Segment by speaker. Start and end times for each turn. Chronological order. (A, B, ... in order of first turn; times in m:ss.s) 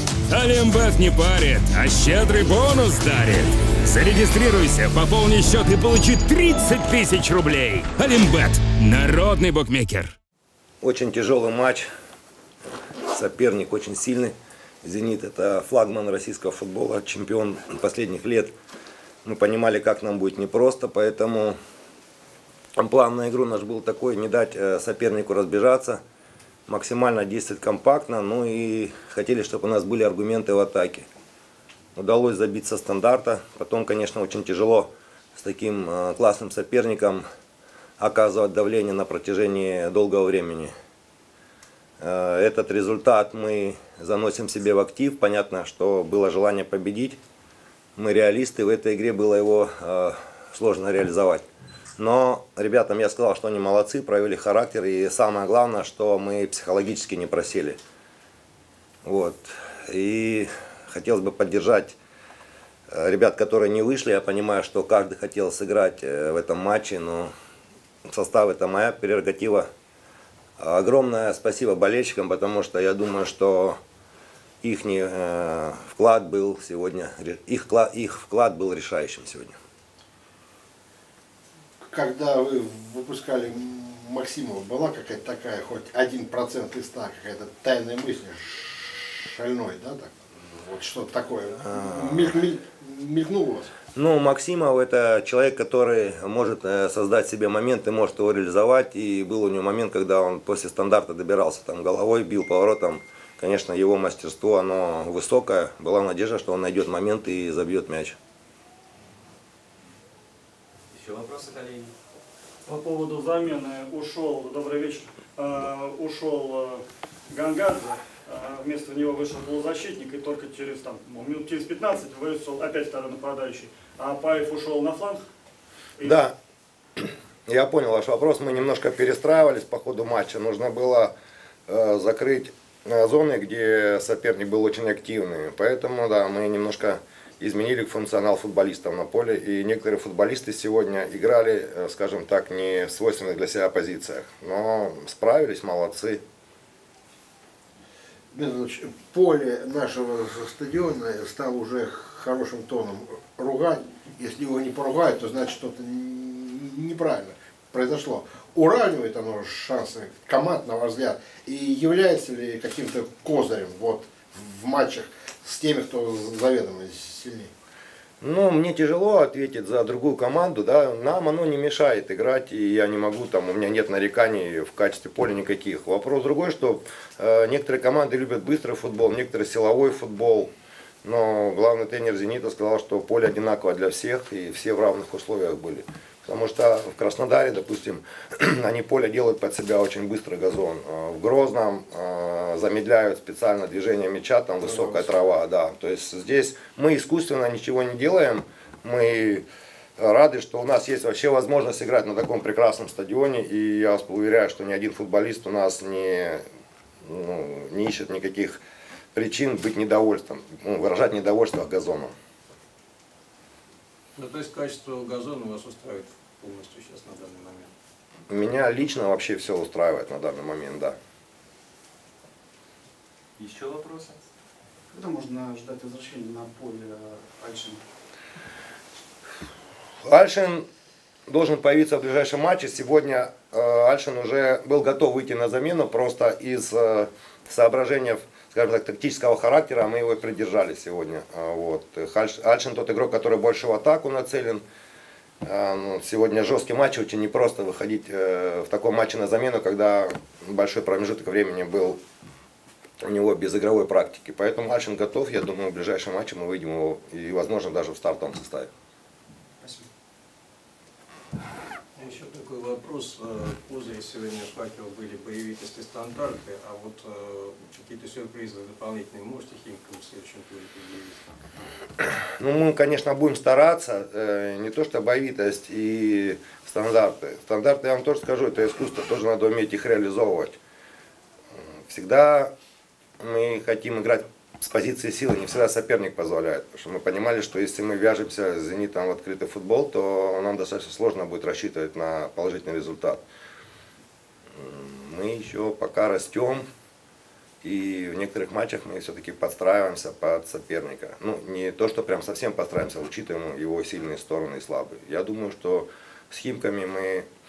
0:00.3-0:10.1 A
0:10.8-0:11.8 B
0:13.1-0:18.5 B
0:19.2-0:21.6 B
0:22.8-0:26.0 B
0:26.7-0:31.0 B
0:32.0-0:37.2 B
0:38.0-0:40.7 B
0:42.0-0:47.2 B
0:48.0-0:51.4 B
0:52.0-0:57.8 B
0:59.0-1:02.0 B
1:02.9-1:07.3 B
1:08.1-1:09.7 B
1:10.6-1:13.8 B
1:14.6-1:19.6 B
1:21.8-1:33.7 C
1:31.7-1:32.3 B
1:33.9-1:48.2 B
1:52.6-2:05.2 D
2:06.0-2:06.3 B
2:07.0-2:11.1 B
2:11.7-2:26.2 B
2:28.3-2:47.5 C
2:48.2-3:00.5 B
3:01.0-3:19.4 B
3:20.0-3:26.4 B
3:27.0-3:28.6 B
3:29.1-3:32.1 B
3:34.2-3:37.7 E
3:38.3-3:41.0 B
3:44.9-3:47.8 F
3:50.0-3:50.6 B
3:51.3-4:04.6 B
4:05.4-4:12.0 B
4:13.0-4:18.7 B
4:19.6-4:19.9 F
4:22.0-4:31.2 E
4:32.0-4:40.6 B
4:41.9-4:42.5 B
4:43.2-4:53.2 B
4:54.6-4:56.6 B
4:57.6-5:07.2 B